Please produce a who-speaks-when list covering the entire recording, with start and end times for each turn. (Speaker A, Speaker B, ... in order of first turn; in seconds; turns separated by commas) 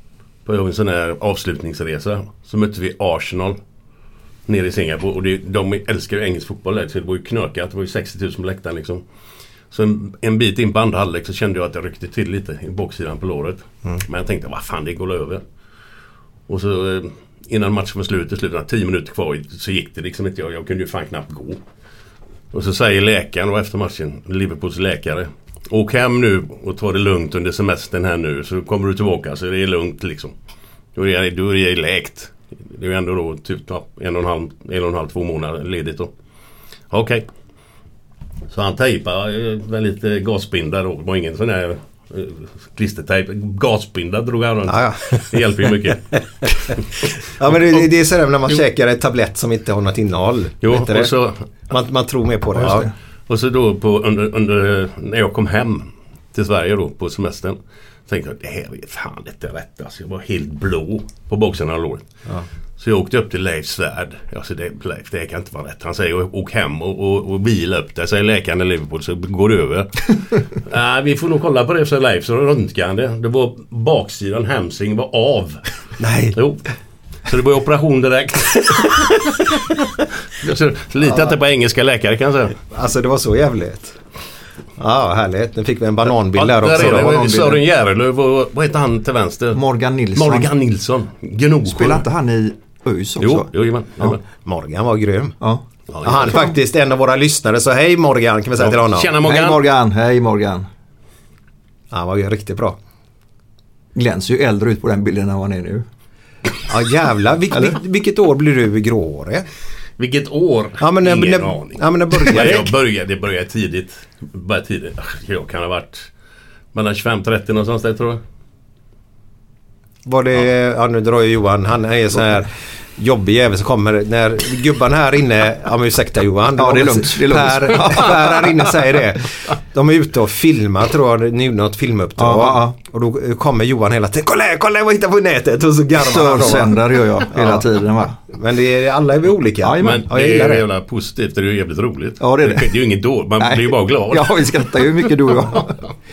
Speaker A: 0.5-3.6, Speaker A: 4.5-9.0, Speaker A: 9.7-15.4, Speaker A: 16.5-21.6, Speaker A: 22.5-30.3, Speaker A: 30.9-36.1, Speaker A: 36.9-37.3, Speaker A: 38.5-46.2, Speaker B: 44.7-45.4, Speaker B: 47.4-51.1, Speaker A: 50.6-51.4, Speaker B: 51.7-52.9, Speaker C: 52.6-52.9, Speaker A: 53.3-62.1, Speaker A: 62.8-75.6, Speaker B: 76.0-76.4, Speaker A: 76.3-76.6, Speaker A: 77.3-79.8, Speaker A: 80.4-82.6, Speaker B: 82.7-84.0, Speaker B: 84.8-87.2, Speaker A: 86.3-89.6, Speaker C: 86.7-87.6, Speaker C: 89.5-90.5, Speaker A: 90.2-92.1, Speaker C: 91.7-94.2, Speaker A: 93.2-94.2, Speaker B: 94.5-95.4, Speaker A: 95.9-96.4, Speaker B: 96.0-99.1, Speaker A: 98.6-99.6, Speaker C: 99.2-100.7, Speaker B: 101.9-102.8, Speaker C: 104.0-105.9, Speaker B: 106.7-109.5, Speaker A: 110.0-116.1, Speaker B: 110.8-112.7, Speaker A: 116.7-118.2, Speaker B: 120.1-136.8, Speaker C: 126.5-128.7, Speaker C: 132.2-132.8, Speaker C: 136.0-138.2, Speaker B: 137.3-137.7, Speaker B: 138.3-140.7, Speaker C: 139.6-140.1, Speaker A: 139.8-144.9, Speaker C: 142.2-142.8, Speaker C: 143.4-145.8